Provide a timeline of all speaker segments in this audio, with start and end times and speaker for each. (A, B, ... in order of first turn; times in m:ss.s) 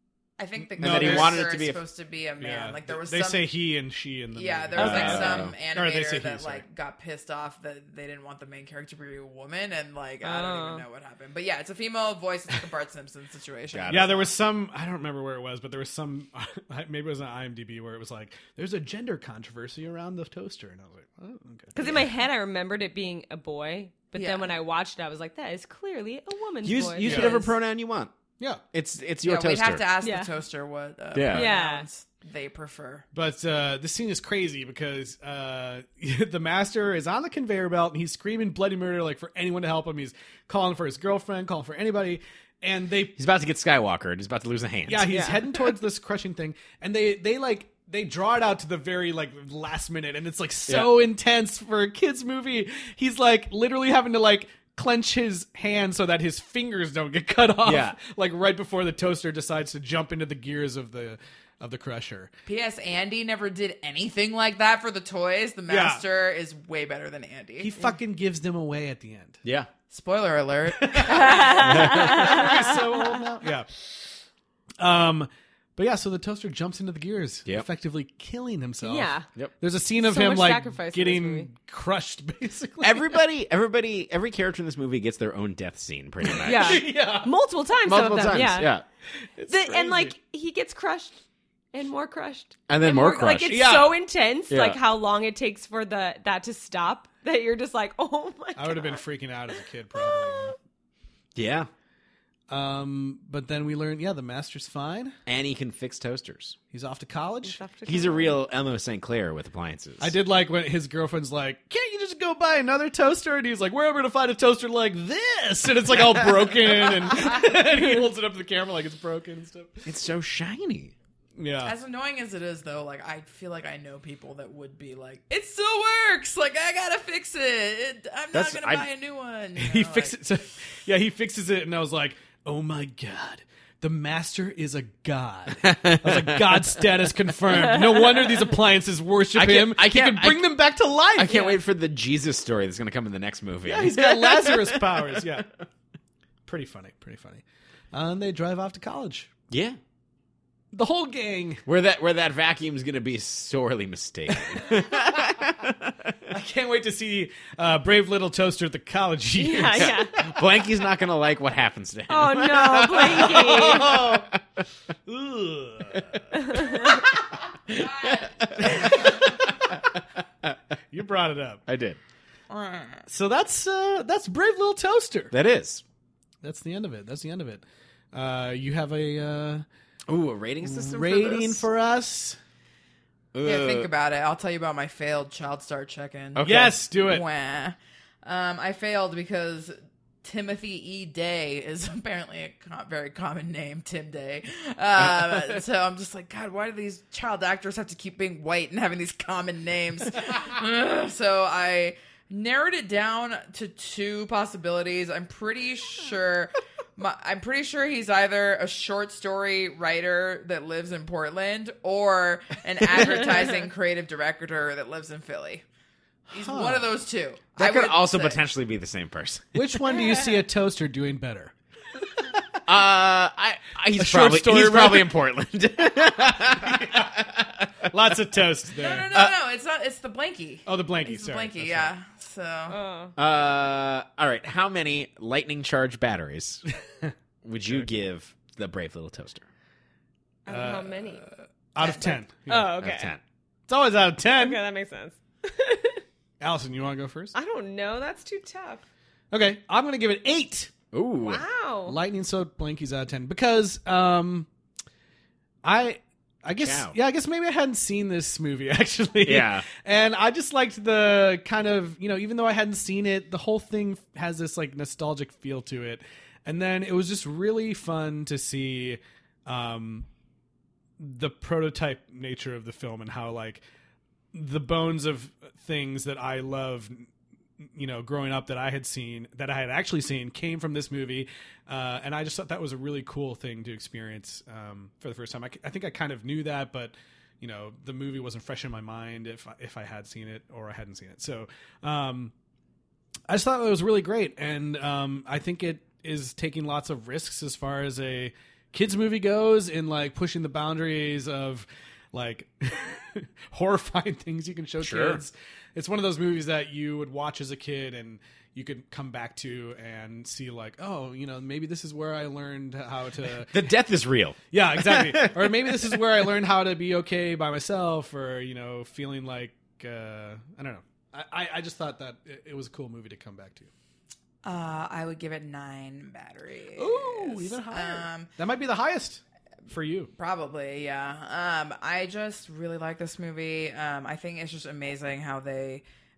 0:00.4-0:03.5 A
0:00.6-0:01.5 B
0:00.8-0:01.8 C
0:02.4-0:06.6 B
0:04.3-0:14.3 A
0:04.7-0:05.5 C
0:10.2-0:10.8 D
0:13.7-0:14.2 C
0:13.9-0:21.7 B
0:21.7-0:27.5 D
0:21.8-0:22.1 C
0:24.1-0:24.5 A
0:26.6-0:28.1 C
0:27.0-0:27.4 B
0:28.7-0:29.8 C
0:29.2-0:33.0 A
0:30.0-0:30.3 D
0:31.1-0:31.5 C
0:31.3-0:31.8 D
0:33.1-0:43.2 B
0:43.2-0:45.1 C
0:44.9-1:02.3 B
0:45.1-0:45.4 D
0:50.7-0:51.0 C
0:57.6-0:58.0 C
1:02.4-1:07.7 A
1:05.7-1:06.0 B
1:07.6-1:09.4 B
1:09.4-1:09.7 C
1:09.9-1:11.7 A
1:10.8-1:13.7 B
1:11.1-1:13.2 D
1:11.6-1:12.3 C
1:14.8-1:23.2 B
1:18.8-1:19.2 D
1:20.0-1:21.5 D
1:22.8-1:26.9 C
1:26.2-1:27.3 B
1:26.4-1:28.7 D
1:27.8-1:28.8 C
1:29.4-1:30.1 B
1:29.5-1:31.2 D
1:31.7-1:39.0 D
1:32.7-1:33.7 C
1:33.5-1:33.9 B
1:34.5-1:34.8 C
1:38.6-1:40.5 B
1:40.0-1:40.5 D
1:41.3-1:41.7 C
1:42.5-1:45.1 B
1:45.2-1:46.6 C
1:46.7-1:47.6 B
1:47.4-1:48.4 D
1:47.8-1:50.1 C
1:50.0-1:59.8 B
1:59.8-2:00.9 C
2:01.4-2:01.7 B
2:01.6-2:10.2 A
2:08.3-2:08.9 C
2:09.6-2:21.4 B
2:15.6-2:16.8 C
2:17.7-2:18.2 D
2:19.3-2:20.6 C
2:21.1-2:25.0 C
2:21.3-2:21.6 D
2:23.6-2:25.5 B
2:26.5-2:29.3 B
2:29.5-2:29.8 C
2:30.7-2:31.6 B
2:31.6-2:36.1 C
2:36.3-2:40.3 B
2:39.4-2:40.1 D
2:39.8-2:44.6 C
2:42.1-2:43.9 D
2:43.0-2:44.3 B
2:45.1-2:46.2 B
2:46.3-2:47.0 D
2:47.7-2:50.5 C
2:47.7-2:49.1 A
2:48.6-2:49.4 B
2:50.9-2:51.6 B
2:51.7-2:52.0 C
2:52.5-2:53.0 A
2:53.1-2:55.3 B
2:55.3-2:55.8 C
2:56.4-2:59.6 B
3:00.1-3:01.7 C
3:00.6-3:02.4 B
3:03.3-3:03.9 C
3:03.4-3:35.6 A
3:06.3-3:06.8 C
3:06.4-3:07.2 B
3:36.3-3:36.9 B
3:36.3-3:38.4 A
3:37.6-3:39.6 C
3:39.5-3:41.5 B
3:42.6-3:48.0 C
3:44.0-3:45.1 B
3:46.6-3:47.0 B
3:47.9-3:49.1 B
3:48.8-3:52.8 A
3:50.6-3:51.9 B
3:52.7-3:53.2 D
3:53.2-3:56.6 C
3:57.4-3:59.4 C
4:00.4-4:01.2 D
4:00.5-4:02.8 B
4:01.8-4:02.2 A
4:02.5-4:03.1 D
4:02.8-4:03.2 C
4:03.7-4:04.6 B
4:04.3-4:06.0 D
4:06.4-4:07.3 B
4:07.3-4:08.8 D
4:09.3-4:10.7 B
4:10.9-4:11.4 C
4:11.2-4:12.0 D
4:11.9-4:14.5 B
4:15.6-4:30.0 B
4:16.6-4:16.9 C
4:19.2-4:19.6 C
4:31.0-4:33.6 B
4:34.3-4:37.1 B
4:37.6-4:52.3 B
4:53.3-5:13.7 B
5:04.8-5:05.2 C
5:13.5-5:16.2 C
5:14.5-5:23.7 B
5:24.4-5:28.3 A
5:26.8-5:30.1 B
5:30.2-5:35.8 A